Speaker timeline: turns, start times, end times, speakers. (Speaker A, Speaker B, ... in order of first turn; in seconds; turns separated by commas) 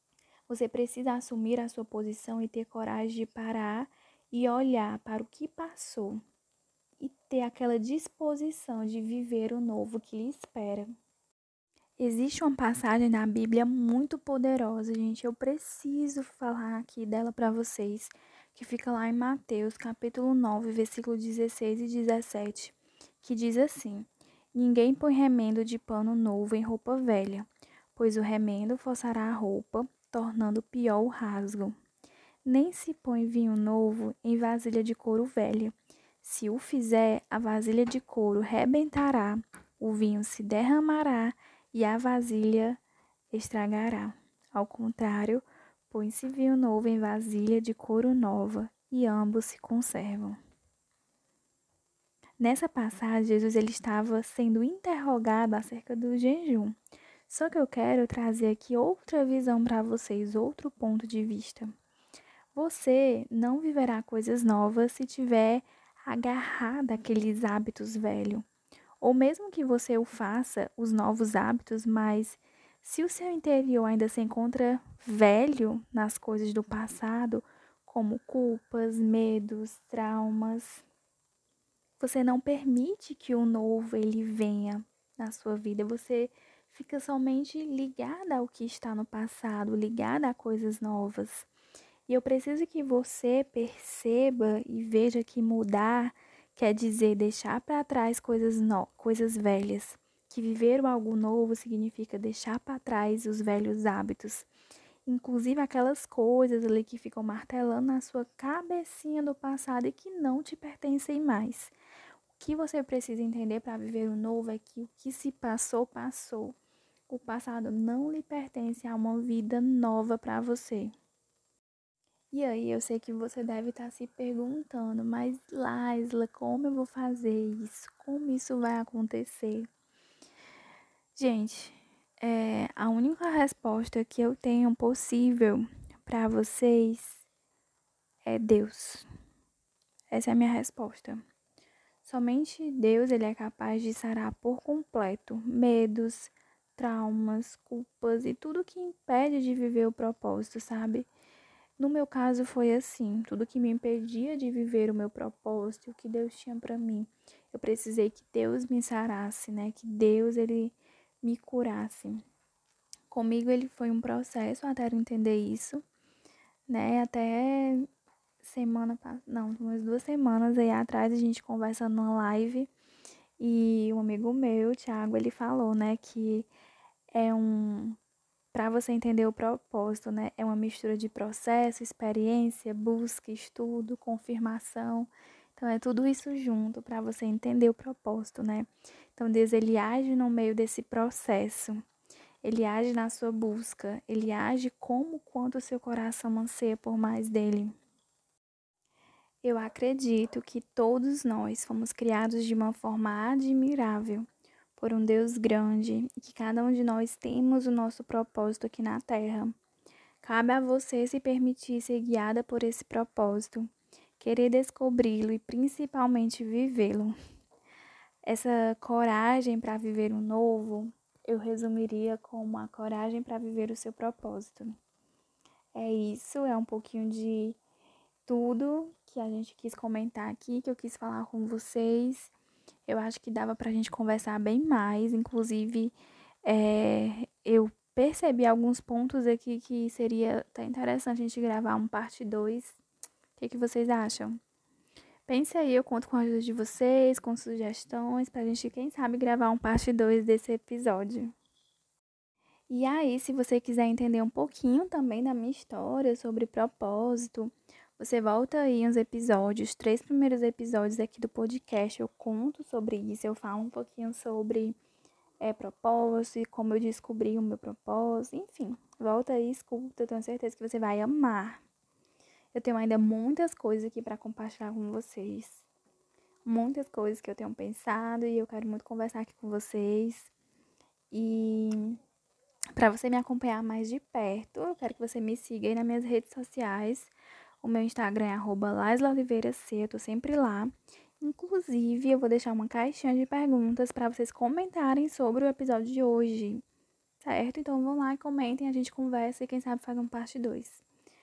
Speaker A: 0.5-6.2, Speaker A: 7.0-10.9, Speaker A: 12.0-31.8, Speaker A: 32.5-42.8, Speaker A: 43.3-50.4, Speaker A: 52.4-56.8, Speaker A: 57.3-61.7, Speaker A: 62.5-68.5, Speaker A: 69.0-80.9, Speaker A: 82.0-91.5, Speaker A: 92.1-104.5, Speaker A: 105.1-111.7, Speaker A: 112.4-116.6, Speaker A: 117.1-120.9, Speaker A: 122.3-129.7, Speaker A: 131.2-137.3, Speaker A: 138.2-139.1, Speaker A: 140.1-141.2, Speaker A: 142.0-151.1, Speaker A: 151.8-162.2, Speaker A: 163.1-165.8, Speaker A: 166.7-167.9, Speaker A: 168.4-172.7, Speaker A: 173.4-176.5, Speaker A: 177.1-178.0, Speaker A: 178.5-191.8, Speaker A: 192.4-197.7, Speaker A: 199.4-209.5, Speaker A: 210.2-217.2, Speaker A: 218.2-224.7, Speaker A: 225.7-227.6, Speaker A: 228.3-232.3, Speaker A: 232.9-242.8, Speaker A: 243.4-244.4, Speaker A: 245.3-251.3, Speaker A: 252.7-264.8, Speaker A: 265.4-271.6, Speaker A: 272.5-275.7, Speaker A: 276.4-280.3, Speaker A: 281.1-282.0, Speaker A: 282.7-296.6, Speaker A: 297.2-300.9